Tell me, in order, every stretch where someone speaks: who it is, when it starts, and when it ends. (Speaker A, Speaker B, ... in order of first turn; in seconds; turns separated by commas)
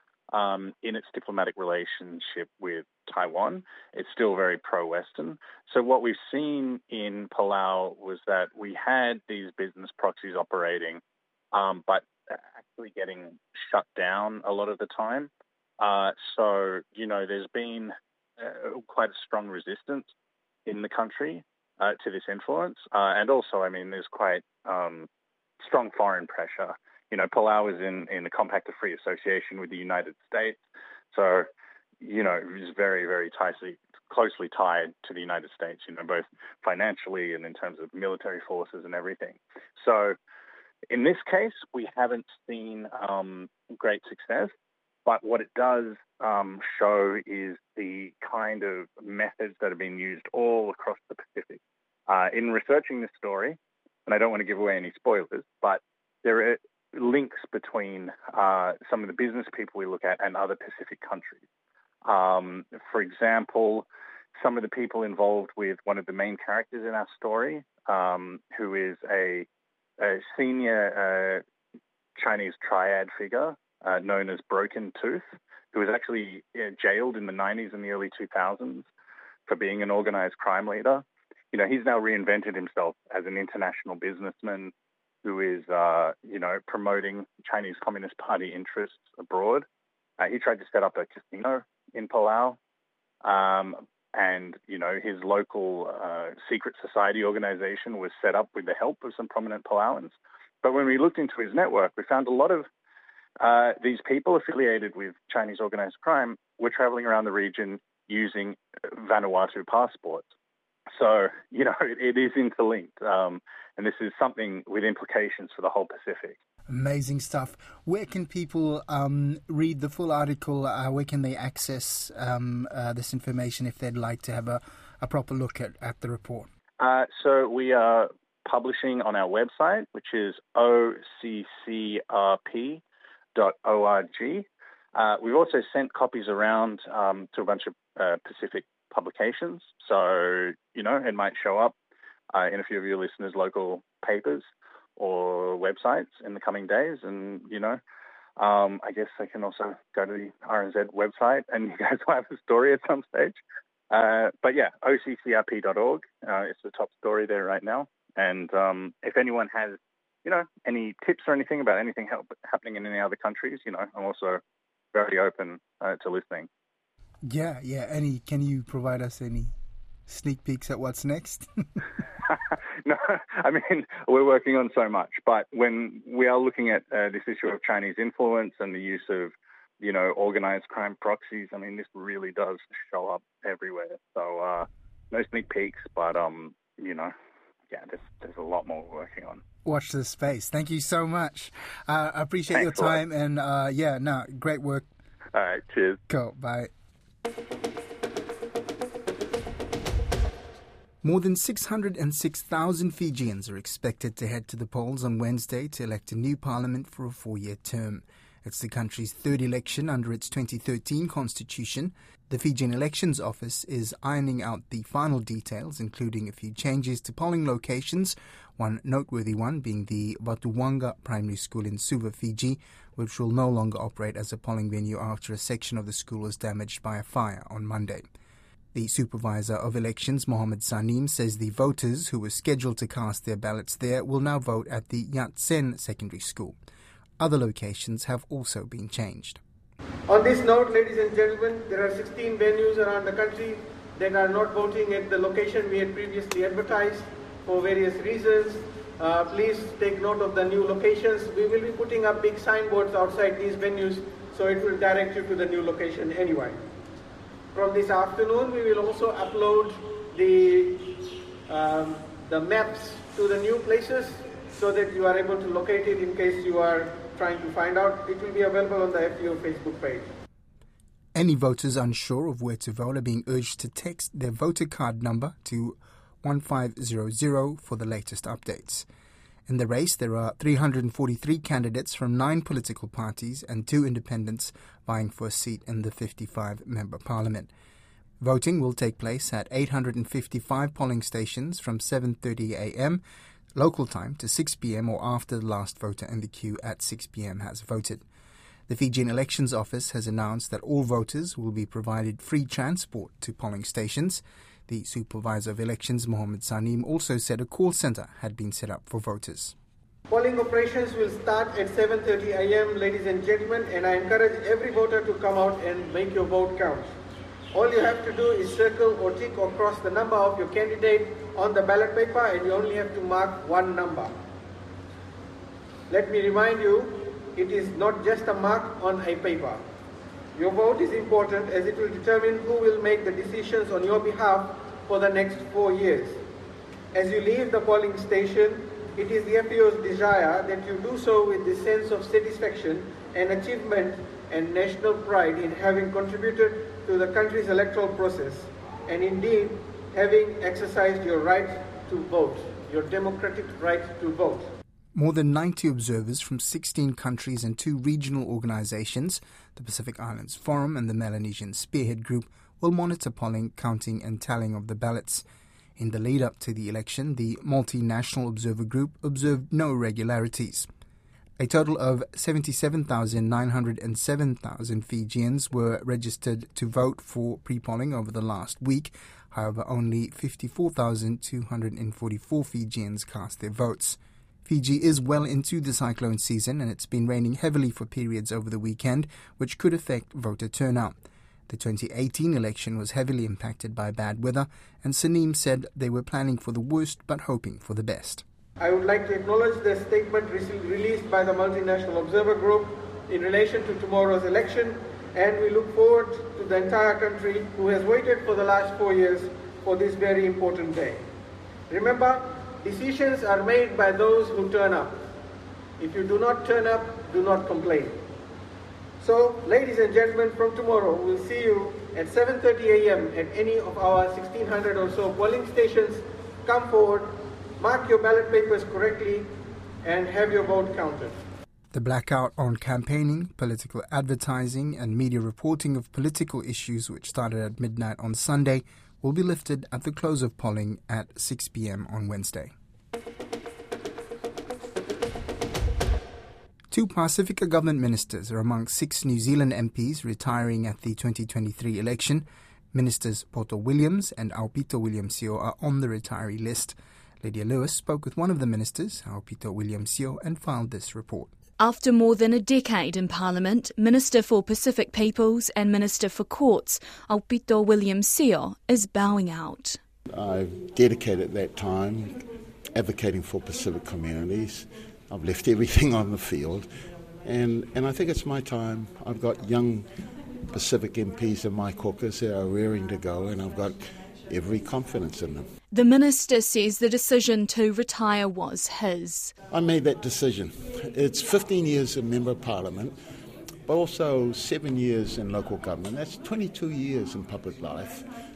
Speaker A: 0.3-11.0, Speaker A: 11.5-20.1, Speaker A: 20.7-25.1, Speaker A: 25.6-30.6, Speaker A: 31.1-31.5, Speaker A: 32.0-40.2, Speaker A: 40.9-44.5, Speaker A: 45.1-61.4, Speaker A: 62.0-69.5, Speaker A: 70.0-71.4, Speaker A: 72.2-78.9, Speaker A: 79.5-84.7, Speaker A: 85.2-89.7, Speaker A: 90.2-92.6, Speaker A: 93.2-102.7, Speaker A: 103.4-110.3, Speaker A: 111.0-116.4, Speaker B: 116.7-126.5, Speaker A: 126.8-132.8, Speaker A: 133.3-141.7, Speaker A: 142.3-147.8, Speaker A: 148.4-153.4, Speaker A: 153.9-164.4, Speaker A: 164.9-166.5, Speaker B: 167.2-169.5, Speaker B: 170.1-171.5, Speaker A: 172.3-187.1, Speaker A: 187.7-189.4, Speaker B: 189.7-194.9, Speaker A: 192.5-193.0, Speaker A: 195.3-196.0, Speaker B: 196.1-196.7, Speaker B: 201.0-228.1, Speaker B: 228.7-236.6, Speaker B: 237.2-239.4, Speaker C: 240.1-256.6, Speaker C: 257.5-260.9, Speaker C: 261.5-270.1, Speaker B: 271.1-278.9, Speaker B: 279.5-287.5, Speaker B: 288.2-293.0, Speaker B: 293.6-298.0, Speaker B: 298.7-309.6, Speaker C: 310.1-316.9, Speaker C: 317.5-324.1, Speaker C: 325.9-329.6, Speaker C: 330.4-336.2, Speaker C: 336.9-354.5, Speaker B: 354.9-365.2, Speaker B: 365.8-370.7, Speaker B: 371.4-398.2, Speaker C: 398.6-411.0, Speaker C: 411.7-415.0, Speaker C: 415.8-418.0, Speaker C: 419.0-429.3, Speaker C: 429.8-431.2, Speaker B: 431.7-442.5, Speaker B: 446.7-461.3, Speaker D: 461.6-469.8, Speaker E: 470.1-476.7, Speaker E: 477.2-479.9, Speaker E: 480.5-485.5, Speaker D: 485.7-489.3, Speaker E: 489.5-493.0, Speaker E: 493.7-498.1